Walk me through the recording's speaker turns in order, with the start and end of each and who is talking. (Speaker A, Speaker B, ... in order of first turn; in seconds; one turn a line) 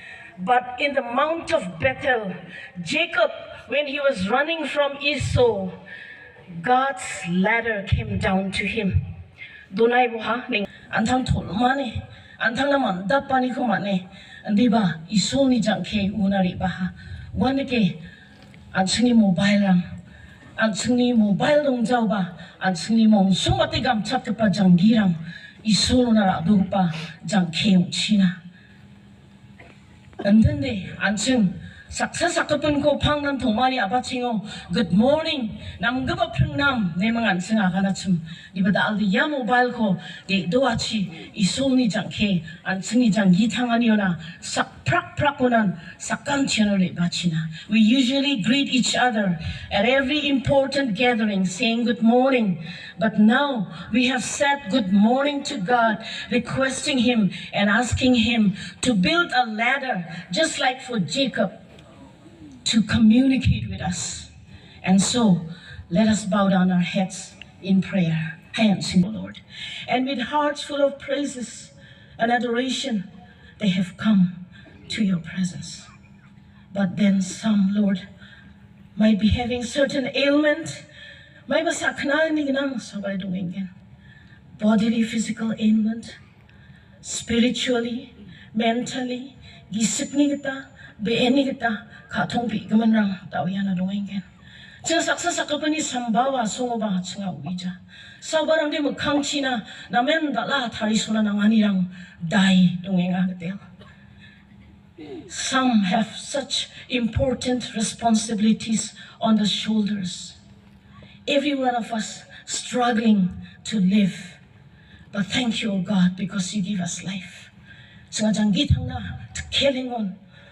Speaker A: 0.4-5.8
Speaker A: 6.5-9.0
Speaker A: 9.7-18.0
Speaker A: 18.7-19.8
Speaker A: 20.6-28.4
Speaker A: 30.2-61.5
Speaker A: 62.6-64.3
Speaker A: 64.8-73.0
Speaker A: 73.6-75.9
Speaker A: 76.7-78.0
Speaker A: 78.9-80.8
Speaker A: 81.5-83.7
Speaker A: 84.6-86.2
Speaker A: 87.0-94.2
Speaker A: 94.8-103.6
Speaker A: 105.3-110.4
Speaker A: 111.2-114.4
Speaker A: 115.1-117.5
Speaker A: 118.1-120.2